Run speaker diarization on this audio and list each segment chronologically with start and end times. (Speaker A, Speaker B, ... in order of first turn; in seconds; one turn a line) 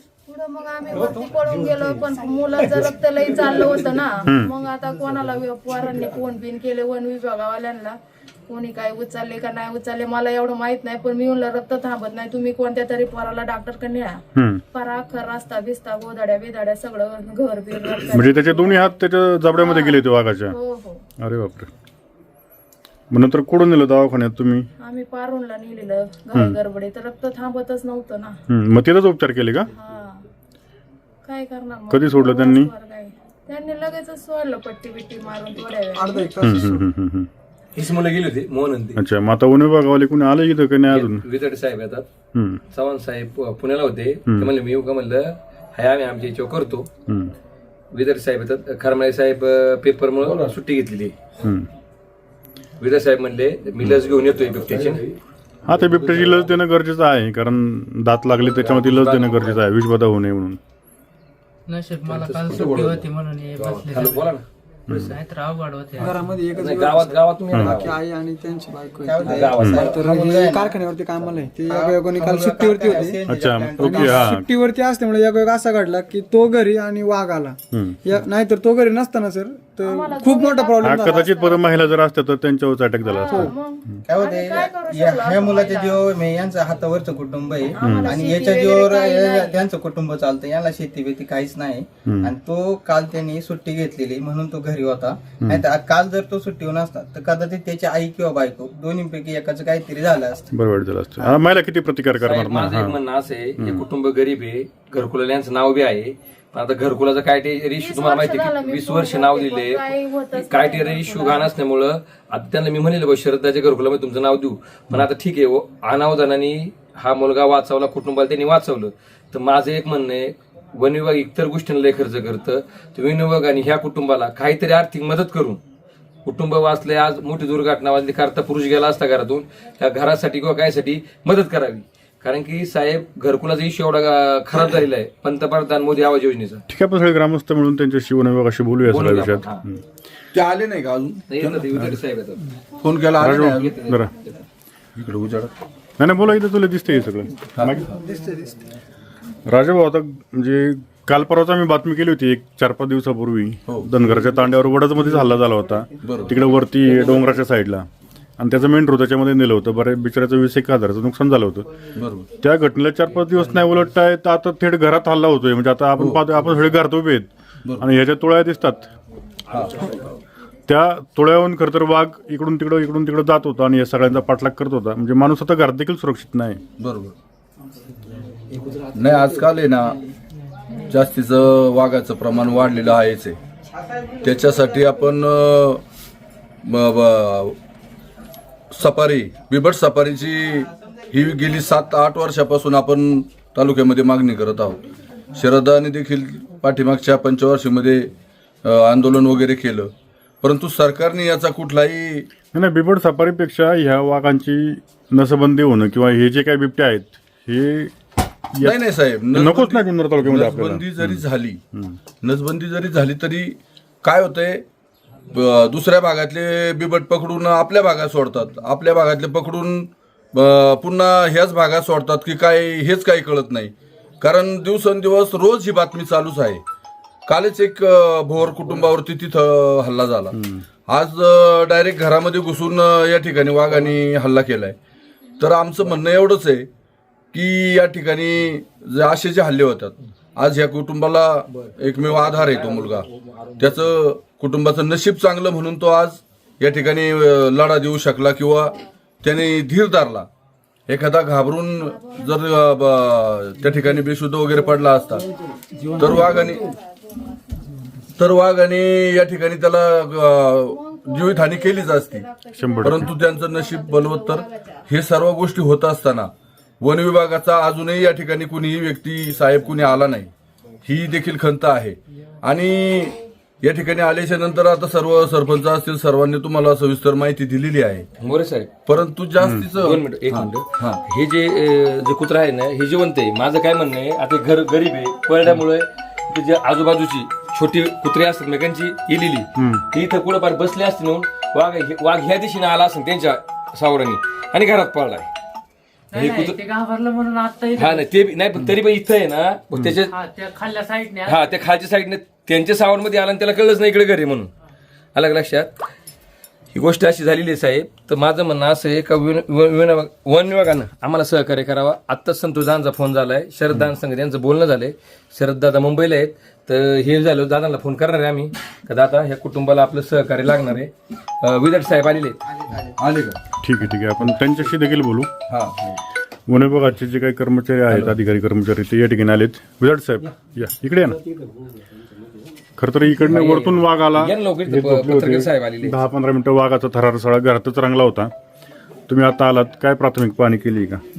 Speaker A: 0.3-8.0
Speaker B: 4.3-4.5
Speaker A: 8.5-14.2
Speaker B: 14.4-14.6
Speaker A: 14.7-18.9
Speaker B: 18.1-20.6
Speaker A: 19.5-21.0
Speaker B: 21.2-21.7
Speaker B: 23.1-24.7
Speaker A: 24.8-28.3
Speaker B: 28.5-29.7
Speaker A: 29.7-30.2
Speaker A: 31.2-36.3
Speaker B: 31.9-32.7
Speaker C: 35.9-36.8
Speaker B: 36.4-37.3
Speaker D: 37.8-39.0
Speaker B: 39.0-41.2
Speaker D: 40.9-42.0
Speaker B: 42.3-42.6
Speaker D: 42.7-46.9
Speaker B: 44.3-44.5
Speaker B: 47.1-47.3
Speaker D: 47.9-51.1
Speaker B: 51.4-51.7
Speaker D: 52.8-55.0
Speaker B: 55.7-60.6
Speaker D: 55.8-56.5
Speaker D: 58.5-59.6
Speaker E: 61.7-64.3
Speaker D: 62.0-63.1
Speaker D: 63.6-65.1
Speaker B: 64.9-65.2
Speaker E: 65.0-66.4
Speaker C: 66.0-73.2
Speaker D: 66.5-68.0
Speaker B: 67.5-67.9
Speaker F: 69.0-74.3
Speaker D: 69.2-70.1
Speaker B: 69.6-69.8
Speaker B: 73.3-74.5
Speaker C: 73.8-81.3
Speaker B: 77.7-78.0
Speaker A: 79.8-81.9
Speaker B: 80.8-83.5
Speaker A: 83.0-86.0
Speaker F: 84.1-100.5
Speaker A: 87.7-89.6
Speaker B: 87.8-88.2
Speaker B: 92.1-92.3
Speaker B: 100.5-103.0
Speaker D: 102.2-125.6
Speaker B: 103.6-103.9
Speaker A: 107.8-111.5
Speaker D: 126.2-136.6
Speaker B: 136.7-139.8
Speaker D: 138.9-139.6
Speaker G: 140.3-141.7
Speaker D: 141.3-142.4
Speaker G: 142.8-143.7
Speaker B: 143.2-144.1
Speaker D: 143.4-144.4
Speaker G: 145.0-145.5
Speaker B: 146.0-147.8
Speaker G: 147.6-147.9
Speaker C: 147.9-148.6
Speaker B: 149.5-157.9
Speaker G: 156.0-156.4
Speaker D: 156.8-157.3
Speaker B: 158.4-161.7
Speaker G: 162.0-162.3
Speaker B: 162.4-168.9
Speaker G: 166.0-166.3
Speaker G: 169.5-169.9
Speaker B: 170.7-176.6
Speaker G: 176.8-177.1
Speaker G: 178.9-180.0
Speaker G: 180.9-183.4
Speaker G: 184.2-185.8
Speaker G: 186.7-187.6
Speaker G: 188.7-194.8
Speaker G: 195.3-198.1
Speaker G: 198.6-202.3
Speaker B: 202.5-207.9
Speaker G: 208.6-211.6
Speaker B: 209.3-212.0
Speaker G: 212.2-214.7
Speaker G: 215.3-226.6
Speaker G: 227.3-230.3
Speaker B: 230.3-230.7
Speaker G: 230.9-234.8
Speaker G: 235.4-236.7
Speaker G: 237.3-243.1
Speaker D: 241.7-243.8
Speaker G: 243.6-250.3
Speaker G: 250.9-255.3
Speaker A: 251.8-252.4
Speaker G: 256.0-256.6
Speaker G: 258.2-262.3
Speaker A: 260.7-264.7
Speaker B: 262.6-263.1
Speaker G: 262.8-270.3
Speaker G: 270.8-278.1
Speaker D: 278.2-278.7
Speaker G: 278.9-281.0
Speaker B: 279.4-279.7
Speaker D: 279.8-295.3
Speaker B: 289.6-289.9
Speaker E: 296.1-298.1
Speaker D: 296.1-296.6
Speaker D: 297.8-300.1
Speaker E: 300.0-301.5
Speaker D: 301.3-304.5
Speaker D: 305.1-305.7
Speaker D: 306.7-320.9
Speaker D: 321.4-322.4
Speaker F: 322.5-323.0
Speaker G: 323.0-323.4
Speaker B: 323.6-325.3
Speaker G: 325.5-326.0
Speaker B: 326.5-331.2
Speaker B: 332.8-338.3
Speaker D: 333.1-336.0
Speaker B: 339.1-341.0